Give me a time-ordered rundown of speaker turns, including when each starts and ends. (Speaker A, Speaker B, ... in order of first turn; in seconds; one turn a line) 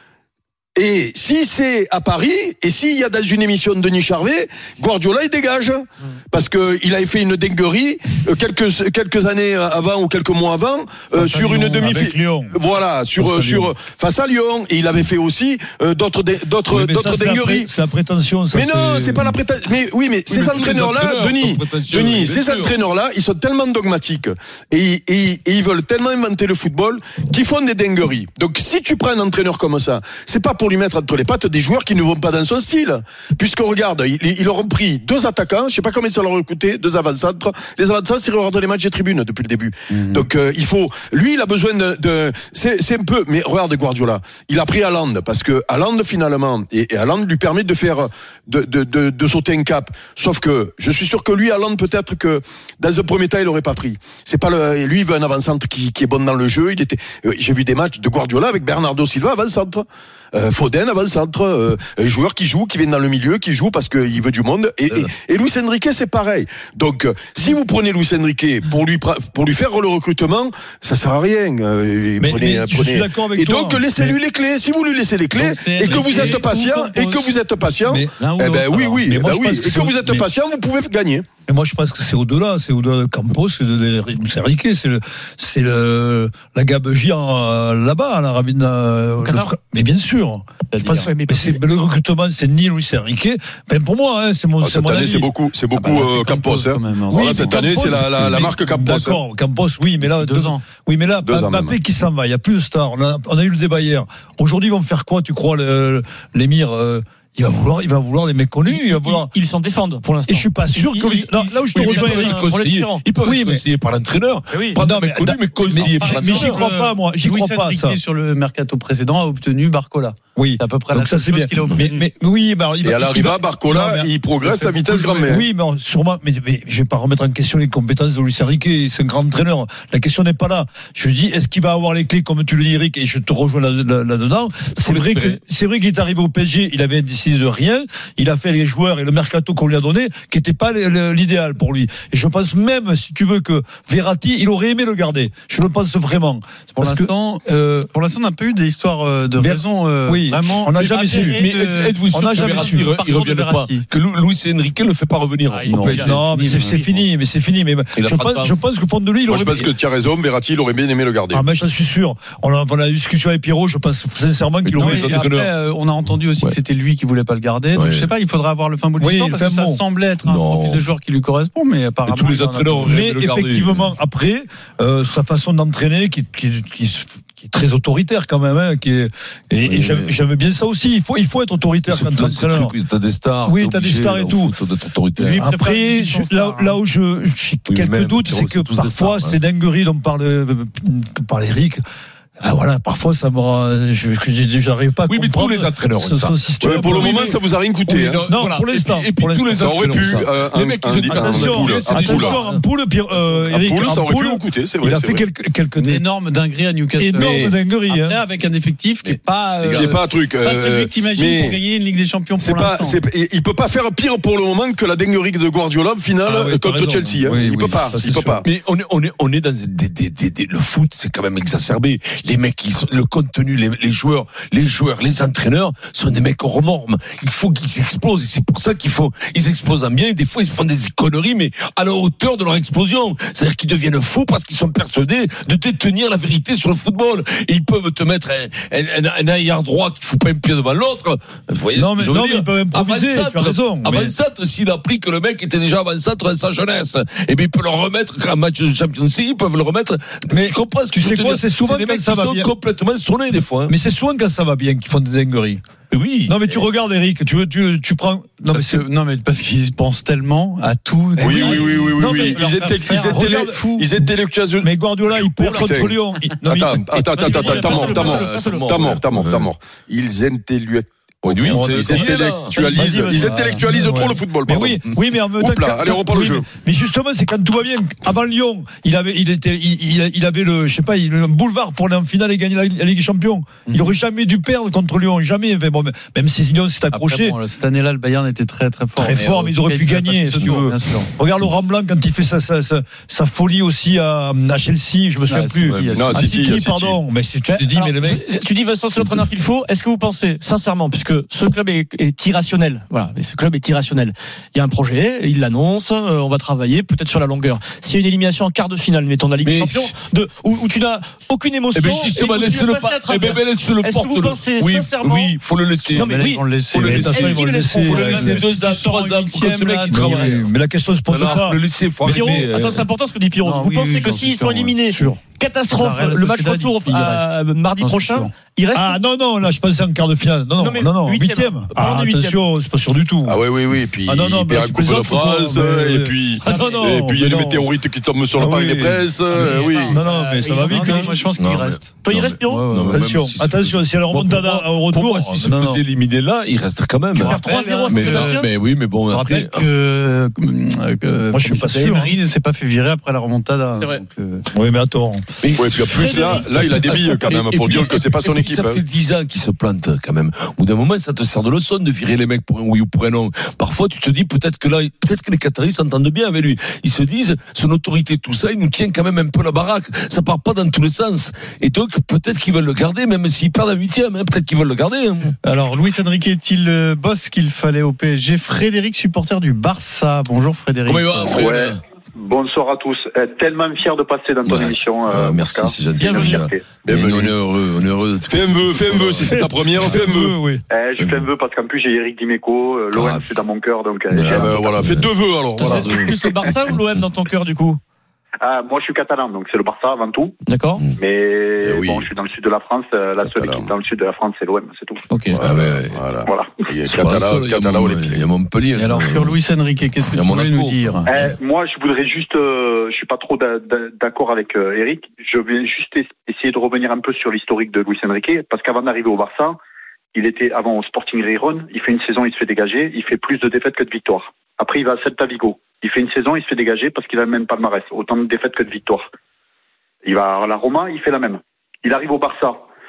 Speaker A: 0.8-17.7
Speaker B: 11.1-12.5
Speaker B: 13.2-13.8
Speaker B: 16.7-19.4
Speaker A: 18.5-81.3
Speaker C: 20.3-22.8
Speaker D: 39.9-40.3
Speaker B: 72.2-74.2
Speaker D: 75.3-77.3
Speaker B: 75.9-76.3
Speaker B: 77.8-78.2
Speaker D: 78.2-79.0
Speaker B: 78.7-80.2
Speaker B: 81.5-95.3
Speaker E: 89.2-89.5
Speaker D: 90.7-91.1
Speaker E: 91.0-91.6
Speaker A: 94.6-99.2
Speaker D: 95.8-98.3
Speaker B: 97.1-109.3
Speaker D: 100.0-100.6
Speaker A: 101.2-101.8
Speaker E: 108.6-113.0
Speaker B: 110.3-112.5
Speaker C: 111.7-116.6
Speaker B: 113.2-113.6
Speaker E: 114.5-114.8
Speaker B: 114.7-118.0
Speaker D: 115.7-122.1
Speaker B: 120.3-147.9
Speaker A: 122.8-125.4
Speaker C: 134.8-135.4
Speaker D: 146.8-153.8
Speaker B: 149.4-151.4
Speaker C: 150.8-156.2
Speaker B: 152.1-152.9
Speaker E: 155.5-155.9
Speaker D: 155.7-157.0
Speaker B: 155.9-159.7
Speaker C: 157.9-158.5
Speaker A: 159.3-161.4
Speaker B: 161.3-165.2
Speaker C: 164.6-165.5
Speaker D: 164.8-172.9
Speaker C: 167.7-168.1
Speaker B: 169.0-169.8
Speaker C: 170.2-170.8
Speaker C: 172.1-173.9
Speaker B: 172.8-182.7
Speaker C: 179.6-180.1
Speaker C: 181.9-185.5
Speaker B: 183.4-184.5
Speaker B: 185.2-191.8
Speaker D: 185.3-186.8
Speaker C: 187.7-189.4
Speaker B: 192.4-197.3
Speaker C: 195.1-197.3
Speaker A: 196.6-198.2
Speaker C: 197.8-202.6
Speaker B: 198.2-200.1
Speaker A: 199.6-202.3
Speaker B: 201.1-206.0
Speaker A: 203.5-205.2
Speaker D: 205.8-213.0
Speaker B: 207.0-208.2
Speaker A: 207.2-207.5
Speaker C: 209.0-209.9
Speaker A: 209.7-211.6
Speaker A: 212.4-218.4
Speaker B: 216.2-218.4
Speaker C: 218.4-253.7
Speaker B: 241.7-244.1
Speaker B: 250.3-252.5
Speaker B: 253.7-255.6
Speaker C: 255.9-256.6
Speaker B: 256.3-258.8
Speaker D: 258.5-263.9
Speaker B: 261.2-263.6
Speaker A: 261.2-274.8
Speaker B: 264.6-267.9
Speaker E: 267.2-268.7
Speaker C: 267.2-269.5
Speaker C: 271.2-272.9
Speaker B: 271.4-287.4
Speaker D: 273.3-273.5
Speaker A: 275.4-276.4
Speaker D: 283.7-283.9
Speaker D: 286.9-291.1
Speaker B: 289.0-298.2
Speaker D: 295.3-296.3
Speaker A: 295.9-297.0
Speaker E: 297.5-315.4
Speaker C: 309.4-309.9
Speaker C: 311.7-320.4
Speaker E: 315.9-316.4
Speaker D: 315.9-320.5
Speaker B: 316.8-318.5
Speaker E: 317.4-318.3
Speaker B: 319.9-322.5
Speaker C: 321.1-322.9
Speaker E: 322.0-329.0
Speaker D: 323.4-328.3
Speaker B: 328.7-333.4
Speaker E: 330.6-332.4
Speaker A: 333.2-340.0
Speaker B: 334.1-337.6
Speaker E: 336.4-336.8
Speaker B: 338.4-339.1
Speaker E: 339.3-341.1
Speaker B: 339.9-341.1
Speaker D: 340.6-343.0
Speaker C: 340.7-349.6
Speaker E: 342.0-342.7
Speaker B: 342.9-345.8
Speaker D: 347.2-348.4
Speaker E: 347.2-348.5
Speaker B: 347.2-348.2
Speaker B: 349.1-349.5
Speaker D: 349.3-354.5
Speaker B: 351.3-352.1
Speaker B: 354.5-355.2
Speaker C: 355.4-375.4
Speaker A: 355.5-358.8
Speaker E: 355.9-356.5
Speaker D: 375.4-381.4
Speaker C: 380.9-381.8
Speaker F: 381.2-386.6
Speaker C: 384.4-390.0
Speaker E: 386.0-386.3
Speaker A: 386.8-387.3
Speaker A: 388.3-390.3
Speaker B: 389.2-390.6
Speaker F: 390.7-394.7
Speaker C: 390.9-391.2
Speaker C: 392.9-393.4
Speaker C: 394.1-396.8
Speaker A: 394.2-396.2
Speaker E: 395.6-397.8
Speaker F: 398.4-400.4
Speaker E: 400.4-400.8
Speaker F: 401.0-405.0
Speaker A: 401.6-402.1
Speaker A: 403.2-403.7
Speaker A: 405.3-408.2
Speaker C: 405.4-406.0
Speaker F: 406.2-406.6
Speaker C: 406.9-409.4
Speaker D: 408.8-411.1
Speaker C: 410.1-411.3
Speaker F: 411.1-419.6
Speaker F: 420.1-429.1
Speaker F: 430.0-432.6